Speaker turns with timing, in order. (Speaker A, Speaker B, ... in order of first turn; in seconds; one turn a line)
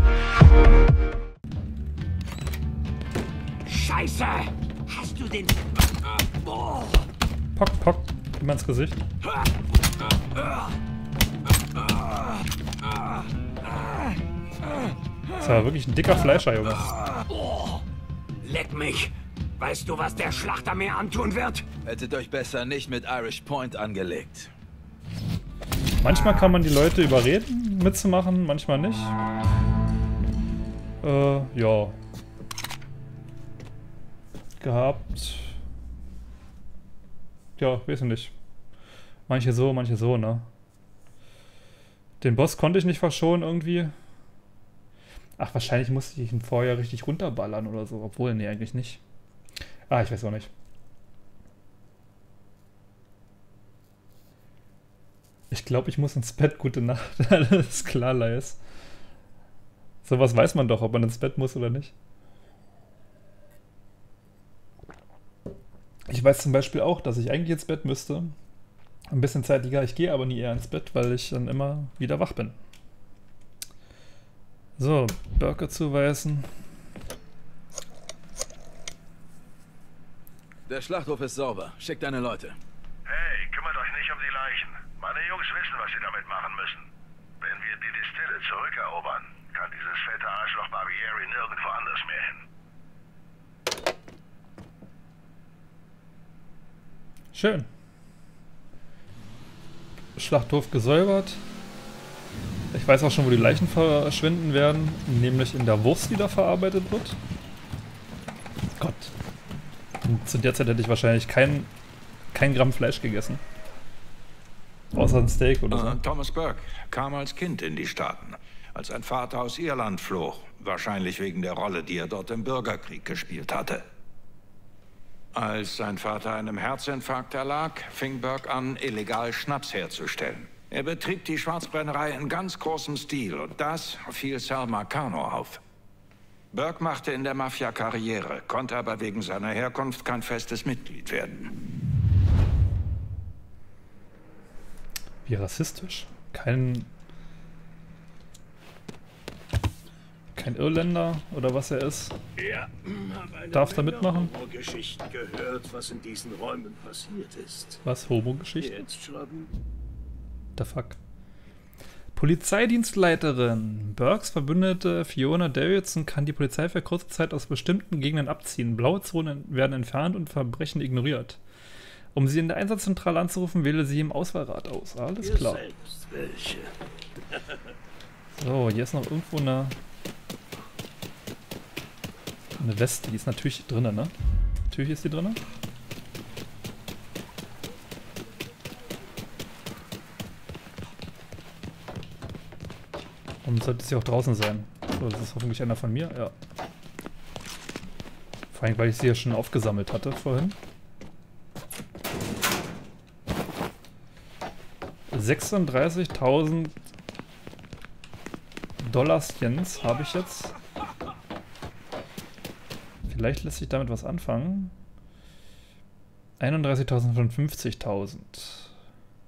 Speaker A: 3.6-5.5
Speaker B: 7.5-9.0
Speaker B: 15.4-16.8
Speaker A: 17.3-17.8
Speaker A: 18.4-21.6
Speaker C: 21.8-24.5
Speaker B: 26.0-29.1
Speaker B: 31.0-31.9
Speaker B: 34.6-35.6
Speaker B: 37.6-38.3
Speaker B: 39.3-40.5
Speaker B: 42.2-43.9
Speaker B: 45.4-49.0
Speaker B: 49.9-50.5
Speaker B: 55.5-58.6
Speaker B: 60.0-61.9
Speaker B: 66.1-68.3
Speaker B: 69.1-72.6
Speaker B: 74.8-76.5
Speaker C: 80.7-82.6
Speaker D: 83.1-86.8
Speaker D: 87.4-92.4
Speaker B: 97.3-97.7
Speaker B: 100.2-101.4
Speaker B: 102.7-107.2
Speaker B: 108.8-109.1
Speaker B: 110.0-111.7
Speaker B: 112.3-113.4
Speaker B: 114.9-116.0
Speaker E: 115.7-123.8
Speaker E: 125.3-135.6
Speaker E: 136.5-141.5
Speaker B: 145.2-146.9
Speaker B: 150.3-152.1
Speaker F: 152.4-157.8
Speaker B: 153.5-154.3
Speaker B: 157.8-158.8
Speaker F: 158.6-159.5
Speaker B: 160.6-161.0
Speaker B: 162.1-171.4
Speaker B: 172.1-175.6
Speaker F: 175.2-176.7
Speaker B: 178.3-179.8
Speaker B: 182.6-184.1
Speaker B: 184.7-185.4
Speaker B: 193.4-196.3
Speaker B: 198.5-200.6
Speaker B: 205.1-206.7
Speaker B: 208.8-210.5
Speaker B: 213.1-214.7
Speaker B: 216.4-218.7